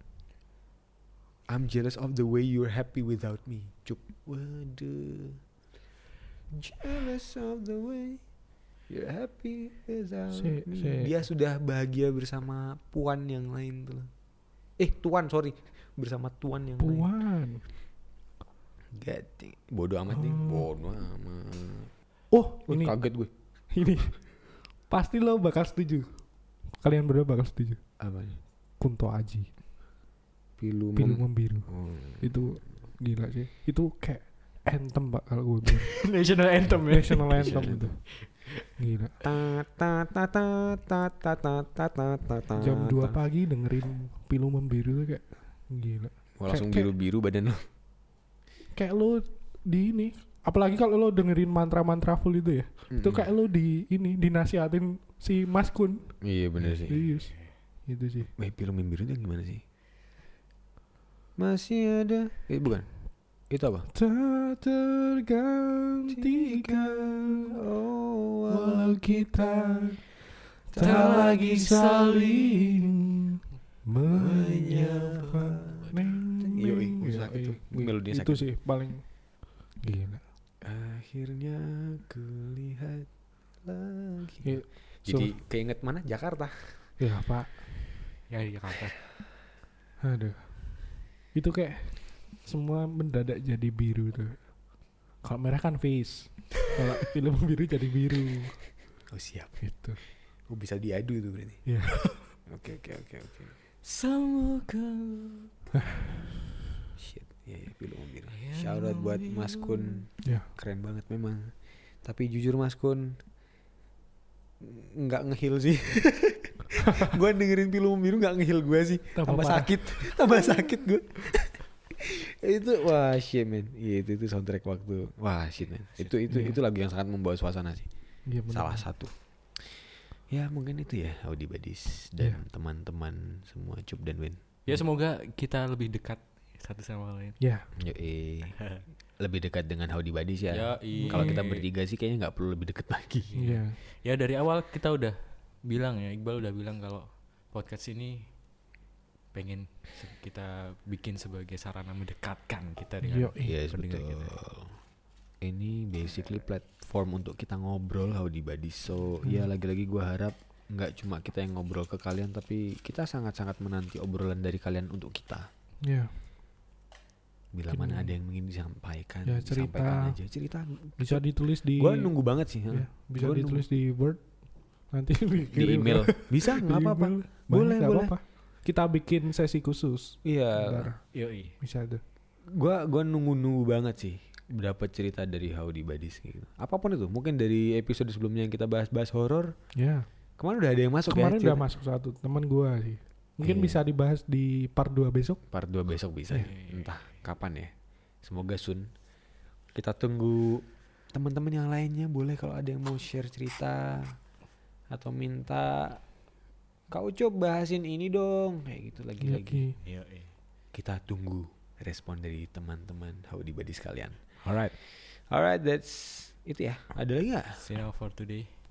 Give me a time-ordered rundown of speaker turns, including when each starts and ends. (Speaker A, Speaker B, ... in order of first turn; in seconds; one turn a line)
Speaker A: 1.5-5.4
Speaker A: 6.5-8.2
Speaker A: 8.9-14.1
Speaker B: 10.3-11.1
Speaker A: 14.8-17.1
Speaker B: 16.8-17.6
Speaker A: 18.9-21.9
Speaker B: 20.1-20.7
Speaker B: 22.3-22.9
Speaker A: 22.6-23.3
Speaker B: 23.7-24.3
Speaker B: 24.9-26.1
Speaker B: 26.8-27.8
Speaker A: 28.0-28.4
Speaker B: 28.8-29.5
Speaker A: 30.6-32.4
Speaker B: 30.9-36.1
Speaker C: 35.6-38.5
Speaker B: 36.8-38.0
Speaker A: 37.4-37.9
Speaker B: 38.8-39.1
Speaker A: 39.2-43.2
Speaker B: 42.6-46.9
Speaker A: 46.4-47.6
Speaker B: 48.7-56.2
Speaker A: 52.9-53.3
Speaker A: 56.2-57.0
Speaker C: 56.6-57.1
Speaker B: 56.9-57.3
Speaker B: 57.9-58.3
Speaker A: 58.4-59.6
Speaker A: 61.4-62.9
Speaker A: 63.5-63.9
Speaker B: 63.9-67.6
Speaker A: 66.1-69.0
Speaker B: 68.5-70.0
Speaker B: 70.7-79.0
Speaker A: 70.7-71.6
Speaker C: 70.8-72.9
Speaker A: 74.1-78.5
Speaker B: 79.8-80.2
Speaker A: 80.6-83.1
Speaker A: 83.6-86.7
Speaker B: 84.4-85.4
Speaker B: 87.0-87.6
Speaker C: 88.3-89.0
Speaker B: 90.0-94.4
Speaker B: 95.2-98.6
Speaker A: 99.1-99.5
Speaker B: 99.6-100.0
Speaker A: 100.5-101.6
Speaker B: 101.7-102.2
Speaker A: 102.5-103.5
Speaker C: 103.8-105.5
Speaker B: 105.7-106.0
Speaker A: 107.0-113.2
Speaker C: 108.3-110.0
Speaker A: 114.6-127.9
Speaker B: 119.1-120.2
Speaker B: 126.3-126.6
Speaker B: 128.3-128.8
Speaker A: 128.5-134.8
Speaker C: 134.7-137.4
Speaker B: 137.4-137.7
Speaker A: 137.8-138.6
Speaker A: 139.2-143.3
Speaker C: 140.5-141.7
Speaker B: 140.9-141.4
Speaker C: 143.3-148.3
Speaker B: 143.3-143.8
Speaker C: 149.3-154.3
Speaker B: 153.0-153.5
Speaker A: 153.4-154.7
Speaker A: 155.4-165.5
Speaker B: 165.8-166.1
Speaker A: 167.5-173.6
Speaker B: 167.7-168.1
Speaker B: 169.2-170.2
Speaker B: 171.0-172.1
Speaker B: 172.7-174.2
Speaker B: 174.9-181.0
Speaker A: 175.5-178.1
Speaker A: 180.2-180.9
Speaker C: 181.1-181.5
Speaker B: 181.6-182.0
Speaker A: 182.5-189.5
Speaker B: 189.8-190.1
Speaker A: 190.4-191.6
Speaker B: 191.1-195.4
Speaker A: 193.4-193.8
Speaker A: 195.5-198.9
Speaker C: 196.4-197.0
Speaker A: 199.7-204.2
Speaker A: 204.9-206.0
Speaker A: 206.9-209.7
Speaker B: 209.2-209.8
Speaker C: 209.8-210.3
Speaker A: 210.7-214.2
Speaker C: 214.4-214.7
Speaker A: 214.8-217.6
Speaker C: 217.6-218.5